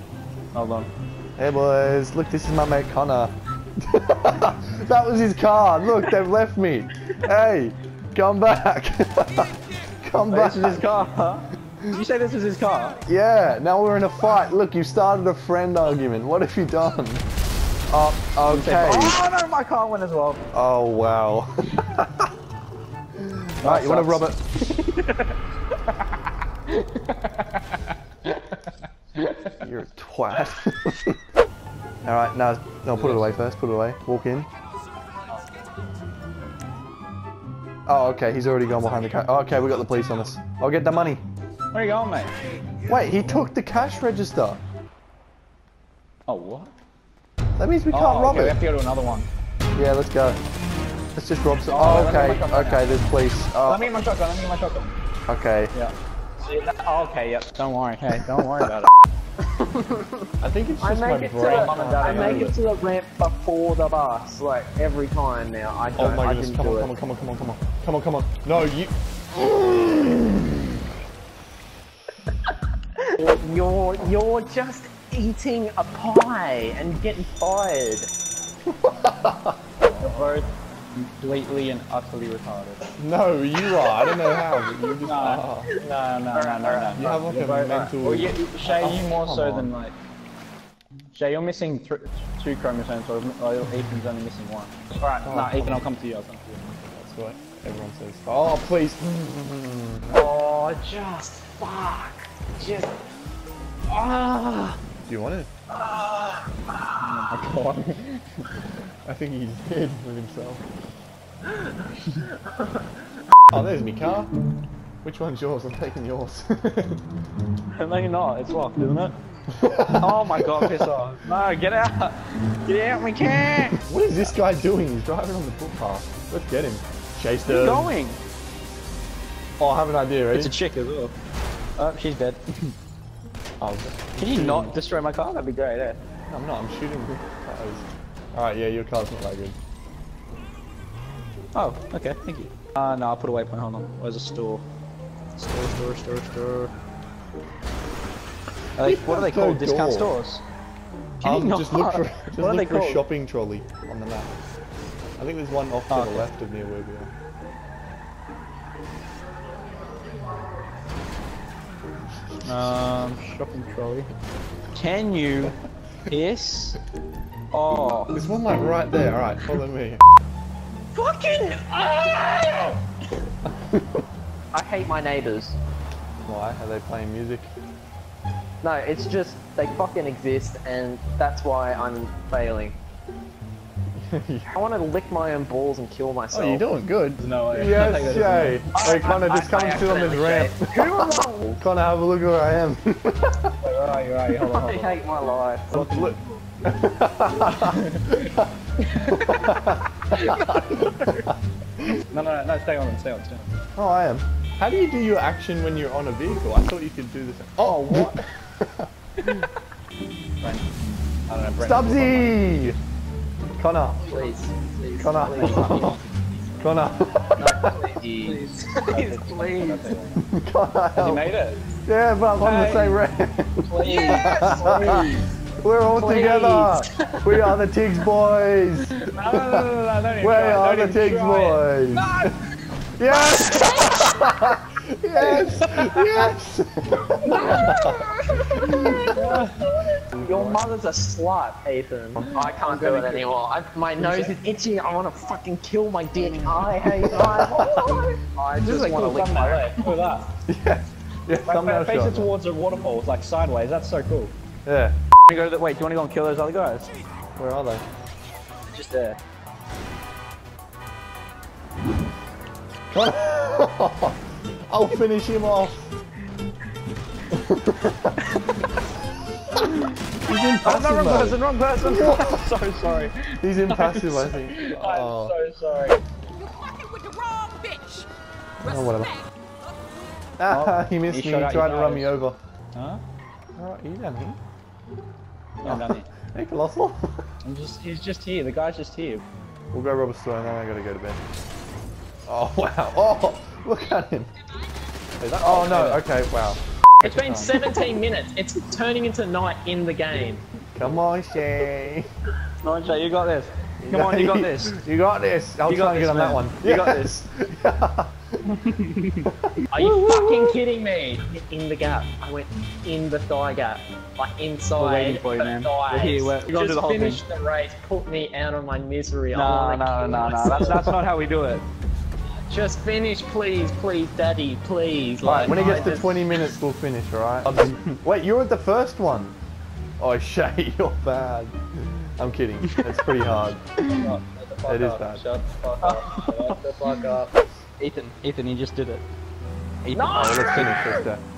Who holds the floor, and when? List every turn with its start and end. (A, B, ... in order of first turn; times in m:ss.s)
0:00.5-0:00.9 A
0:01.4-0:10.9 B
0:10.3-0:13.0 A
0:13.0-0:17.2 B
0:17.9-0:19.2 B
0:18.4-0:20.4 A
0:20.5-0:22.3 B
0:23.2-0:24.5 B
0:23.6-0:24.3 A
0:26.8-0:27.8 A
0:29.4-0:31.2 B
0:32.0-0:34.5 B
0:32.9-0:33.3 A
0:37.9-0:41.2 B
0:41.7-0:42.3 A
0:42.8-0:44.6 B
0:46.3-0:46.7 A
0:47.6-0:48.6 B
0:47.9-0:49.3 A
0:49.7-0:50.4 B
0:51.2-0:53.9 B
0:51.7-0:55.0 A
0:55.3-0:55.7 B
0:55.7-0:58.9 A
0:59.5-1:00.1 C
1:00.4-1:02.6 B
1:00.8-1:06.9 C
1:01.4-1:02.5 A
1:05.9-1:10.7 B
1:13.0-1:18.1 C
1:18.6-1:20.4 B
1:20.0-1:22.9 A
1:23.0-1:25.7 B
1:23.8-1:24.9 C
1:25.0-1:30.0 A
1:26.3-1:27.0 C
1:26.9-1:29.7 B
1:31.1-1:36.6 A
1:35.2-1:35.8 B
1:36.9-1:40.2 B
1:40.1-1:42.9 C
1:43.9-1:44.8 C
1:45.0-1:45.5 B
1:45.7-1:46.9 C
1:47.0-1:48.5 A
1:49.0-1:50.6 B
1:51.5-1:52.9 C
1:53.5-1:54.3 B
1:55.0-1:57.0 B
1:57.8-1:59.1 A
1:59.6-2:00.8 B
1:59.9-2:04.2 A
2:03.8-2:07.9 B
2:07.4-2:08.2 A
2:09.6-2:10.6 B
2:10.3-2:11.1 A
2:11.8-2:12.7 A
2:13.6-2:14.8 B
2:14.1-2:16.0 A
2:16.3-2:19.6 B
2:21.5-2:24.6 A
2:25.3-2:26.7 A
2:28.8-2:30.4 A
2:28.8-2:30.2 B
2:31.2-2:34.3 B
2:31.2-2:33.0 A
2:35.2-2:37.1 B
2:35.9-2:36.3 A
2:42.4-2:44.1 A
2:44.7-2:45.6 A
2:46.1-2:46.8 A
2:47.5-2:48.2 A
2:48.1-2:50.0 B
2:51.0-2:52.7 A
2:53.4-2:54.0 B
2:54.5-2:55.6 C
2:56.2-2:57.5 B
2:58.6-3:02.8 C
3:04.0-3:04.5 B
3:04.5-3:06.7 C
3:06.3-3:13.5 B
3:07.2-3:08.6 A
3:08.7-3:11.6 C
3:13.6-3:15.0 A
3:14.3-3:15.8 C
3:15.7-3:16.2 A
3:15.7-3:21.3 B
3:17.4-3:19.5 A
3:20.1-3:21.2 A
3:22.1-3:23.5 A
3:23.8-3:29.4 B
3:27.6-3:28.2 A
3:30.4-3:30.6 A
3:31.3-3:32.6 A
3:31.6-3:32.8 B
3:33.6-3:34.1 B
3:34.0-3:36.0 C
3:35.0-3:36.0 B
3:35.3-3:35.9 A
3:36.6-3:37.8 B
3:37.4-3:38.7 C
3:38.2-3:40.3 A
3:38.7-3:39.8 D
3:40.2-3:41.3 B
3:41.0-3:41.6 A
3:41.8-3:52.3 B
3:42.4-3:43.1 A
3:43.6-3:45.3 A
3:43.8-3:44.5 D
3:44.5-3:45.1 C
3:46.0-3:47.1 C
3:49.0-3:52.3 A
3:53.0-3:59.2 B
3:55.3-3:56.0 A
3:57.3-4:09.8 C
3:58.6-3:59.6 A
4:00.1-4:00.6 B
4:02.2-4:02.5 B
4:02.3-4:03.2 A
4:04.0-4:04.3 A
4:06.8-4:07.8 B
4:07.2-4:08.0 A
4:08.6-4:10.3 A
4:10.5-4:12.3 B
4:11.4-4:14.3 A
4:14.6-4:14.9 B
4:15.3-4:16.9 A
4:17.4-4:17.8 B
4:18.7-4:19.2 A
4:22.9-4:25.9 B
4:27.3-4:28.2 B
4:30.2-4:32.5 B
4:30.6-4:36.0 A
4:33.2-4:35.4 B
4:36.6-4:38.1 D
4:38.6-4:39.2 B
4:40.4-4:42.4 B
4:40.5-4:42.1 A
4:42.7-4:43.0 A
4:43.6-4:44.4 B
4:45.6-4:46.1 A
4:45.6-4:47.2 B
4:47.4-4:49.2 A
4:49.7-4:51.2 B
4:52.2-4:54.3 B
4:55.2-4:56.0 A
4:55.2-4:57.7 B
4:57.0-5:00.4 C
5:00.7-5:02.0 B
5:02.6-5:04.8 A
5:03.8-5:08.1 B
5:05.7-5:07.2 A
5:08.5-5:09.3 A
5:09.3-5:10.6 B
5:09.7-5:20.9 C
5:14.8-5:17.2 A
5:19.3-5:21.6 A
5:22.4-5:26.3 C
5:25.2-5:29.4 B
5:25.2-5:26.0 A
5:30.0-5:33.8 B
5:33.8-5:34.2 A
5:34.2-5:37.3 C
5:34.6-5:35.2 B
5:35.8-5:36.6 A
5:36.2-5:36.6 B
5:37.8-5:39.0 A
5:39.8-5:40.8 A
5:39.9-5:41.1 C
5:40.1-5:41.2 B